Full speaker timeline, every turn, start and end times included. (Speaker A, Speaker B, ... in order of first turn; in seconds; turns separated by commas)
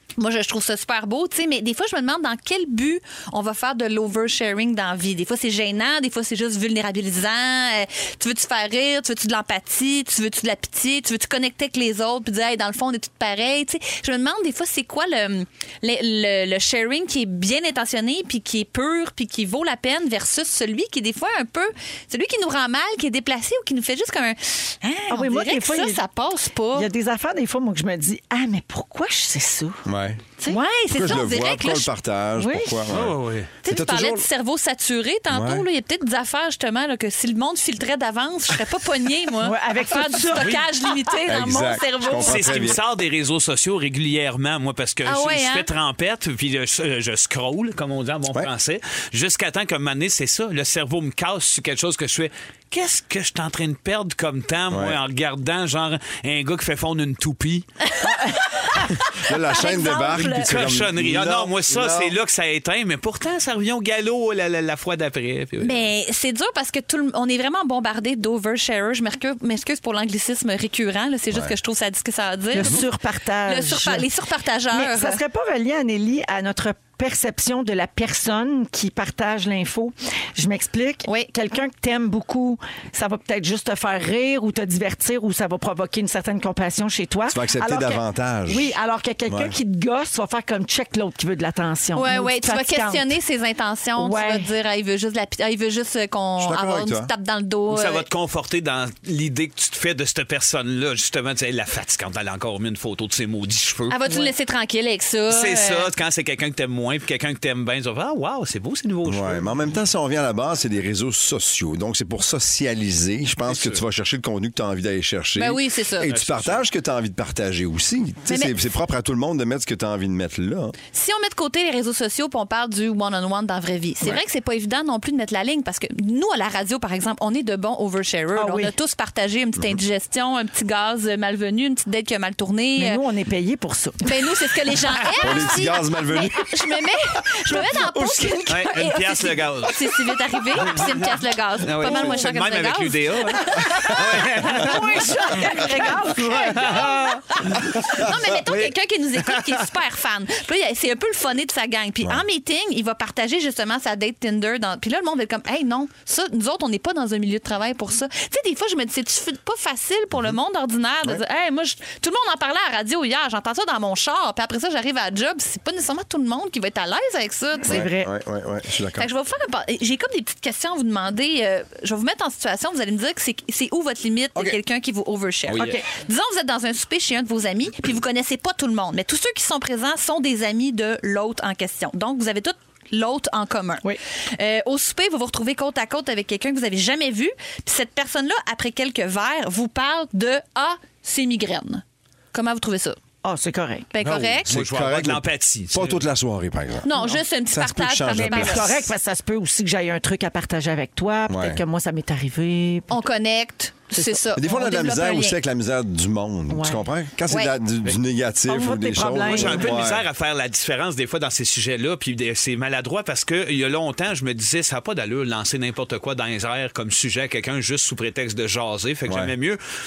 Speaker A: 0.2-26.9, Speaker B: 25.1-26.0, Speaker B: 26.7-29.8, Speaker C: 29.9-30.2, Speaker A: 30.5-31.9, Speaker C: 30.9-34.3, Speaker B: 32.4-32.9, Speaker D: 32.9-33.5, Speaker A: 33.6-42.7, Speaker C: 35.3-35.6, Speaker B: 39.4-41.1, Speaker D: 40.4-40.6, Speaker C: 41.3-42.8, Speaker D: 42.2-57.7, Speaker A: 45.0-45.7, Speaker C: 54.7-55.0, Speaker A: 57.9-60.5, Speaker C: 58.8-62.1, Speaker D: 60.1-65.8, Speaker A: 65.6-72.8, Speaker C: 71.3-71.5, Speaker B: 72.5-74.1, Speaker A: 73.5-75.2, Speaker B: 74.7-93.1, Speaker C: 87.3-88.7, Speaker C: 89.3-89.5, Speaker A: 91.9-98.1, Speaker B: 94.0-94.5, Speaker C: 96.4-97.1, Speaker D: 97.7-104.3, Speaker A: 103.9-105.9, Speaker D: 105.3-109.5, Speaker C: 109.0-120.7, Speaker D: 113.5-113.8, Speaker A: 115.4-116.1, Speaker D: 116.0-116.6, Speaker A: 118.3-118.5, Speaker A: 120.9-133.0, Speaker B: 128.3-128.7, Speaker B: 132.8-134.3, Speaker A: 134.0-167.8, Speaker C: 135.2-136.5, Speaker B: 137.5-139.0, Speaker D: 138.5-139.8, Speaker D: 140.6-140.9, Speaker D: 141.6-145.1, Speaker B: 141.8-142.2, Speaker B: 143.7-146.9, Speaker D: 146.2-149.6, Speaker B: 167.6-168.1, Speaker C: 167.7-169.1, Speaker A: 169.0-193.0, Speaker D: 175.5-175.8, Speaker B: 175.5-175.8, Speaker B: 193.2-193.9, Speaker A: 193.9-194.5, Speaker C: 194.0-196.9, Speaker D: 194.5-196.0, Speaker A: 196.8-198.7, Speaker C: 197.5-198.8, Speaker B: 198.1-203.0, Speaker C: 201.3-201.6, Speaker A: 202.9-205.4, Speaker B: 203.9-204.2, Speaker C: 204.3-210.0, Speaker B: 206.5-206.8, Speaker A: 207.3-207.5, Speaker B: 208.5-209.8, Speaker D: 209.2-219.6, Speaker C: 219.1-219.3